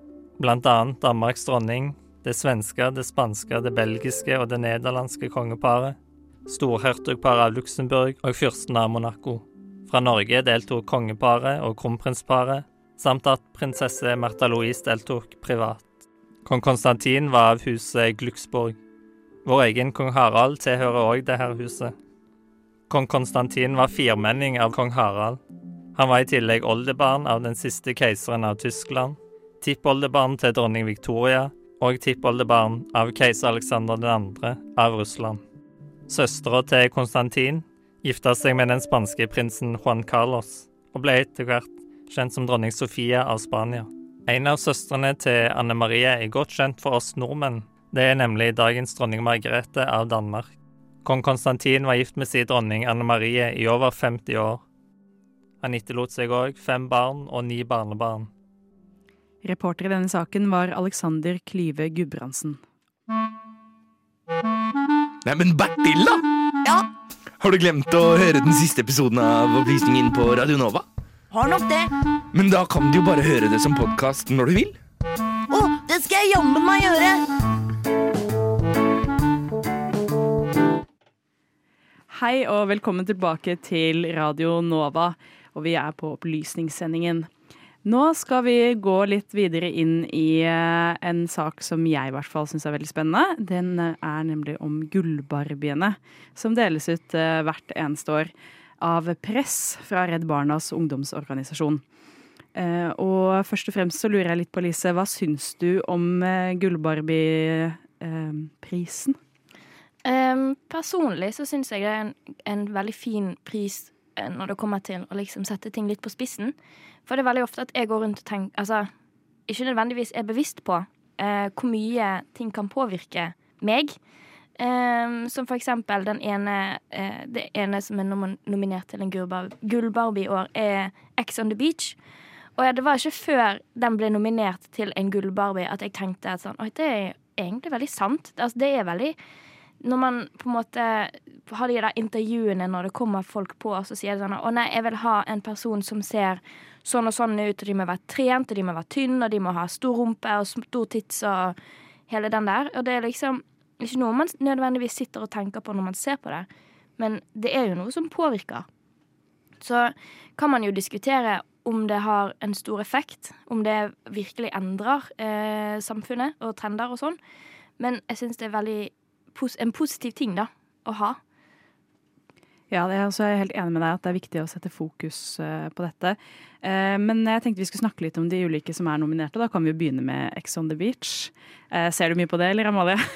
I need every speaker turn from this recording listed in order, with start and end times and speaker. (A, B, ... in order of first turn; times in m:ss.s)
0:00.4-0:06.0 A
0:06.5-0:15.8 A
0:16.4-0:18.8 A
0:19.4-0:21.9 A
0:22.9-0:25.4 A
0:25.9-0:35.4 A
0:36.1-0:50.5 A
0:51.0-0:54.6 A
0:55.6-0:58.3 A
0:59.4-1:02.6 B
1:05.2-1:06.2 C
1:07.4-1:10.8 C
1:11.3-1:11.9 D
1:12.3-1:14.8 C
1:15.5-1:17.2 D
1:22.1-1:27.3 B
1:27.8-1:41.8 B
1:42.5-1:49.2 B
1:50.0-1:56.5 E
1:57.0-1:58.9 E
1:59.5-2:04.0 E
2:04.6-2:12.0 E
2:12.6-2:19.2 E
2:19.8-2:31.6 E
2:32.1-2:36.5 E
2:37.0-2:38.6 E
2:39.6-2:47.2 E
2:47.8-2:51.2 E
2:52.7-3:03.0 B